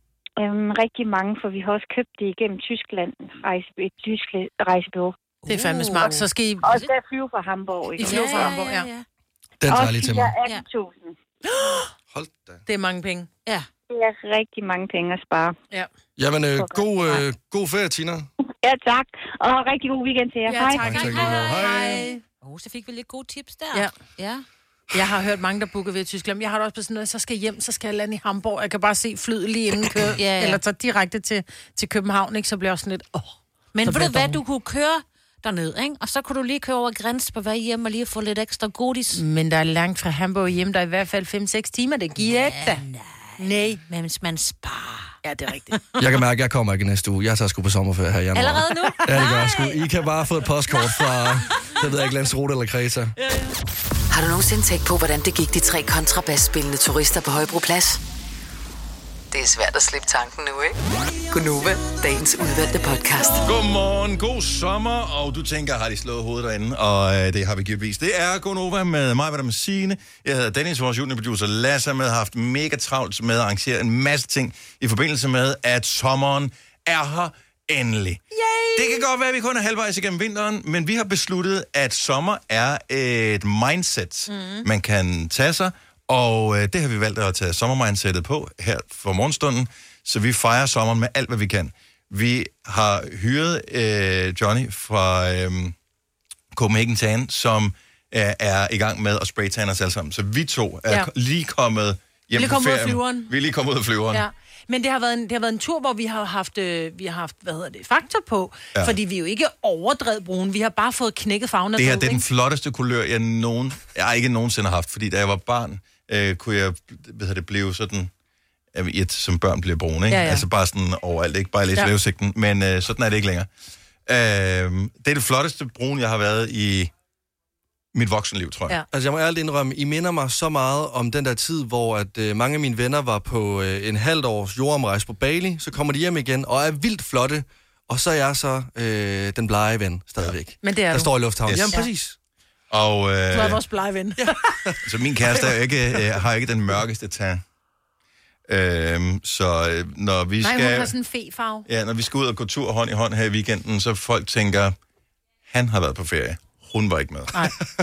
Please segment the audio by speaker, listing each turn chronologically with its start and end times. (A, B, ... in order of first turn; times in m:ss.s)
0:00.4-0:05.2 A
0:05.4-0:06.9 B
0:05.5-0:06.8 C
0:06.0-0:08.6 A
0:08.0-0:08.9 C
0:08.0-0:09.0 B
0:09.6-0:10.4 D
0:09.6-0:11.2 A
0:11.5-0:11.9 C
0:12.1-0:12.6 D
0:12.7-0:13.3 C
0:13.9-0:15.6 A
0:16.2-0:18.3 D
0:16.6-0:16.8 A
0:18.6-0:21.0 A
0:20.5-0:22.2 C
0:20.8-0:22.0 D
0:20.8-0:24.4 B
0:24.9-0:34.4 C
0:30.2-0:30.6 B
0:33.8-0:39.2 B
0:39.1-0:42.8 C
0:42.2-0:45.2 B
0:43.4-0:43.8 C
0:45.2-0:45.8 C
0:46.0-0:53.1 D
0:48.4-0:49.9 B
0:50.7-0:51.9 B
0:53.2-0:53.6 B
0:54.1-0:58.0 E
0:59.3-1:00.8 E
1:01.3-1:03.5 E
1:03.4-1:18.2 F
1:18.3-1:19.0 C
1:18.8-1:35.8 F
1:24.3-1:24.6 C
1:36.5-1:44.3 F
1:42.3-1:43.3 C
1:44.1-1:52.2 C
1:51.8-1:58.1 F
1:58.7-2:03.5 F
2:00.1-2:00.4 C
2:04.1-2:06.9 F
2:07.9-2:08.8 F
2:08.9-2:22.2 D
2:20.6-2:21.2 C
2:21.5-2:21.8 F
2:22.7-2:23.6 F
2:23.3-2:24.5 C
2:24.8-2:27.4 F
2:28.5-2:30.9 F
2:30.4-2:31.7 C
2:31.7-2:34.8 F
2:35.5-2:37.5 F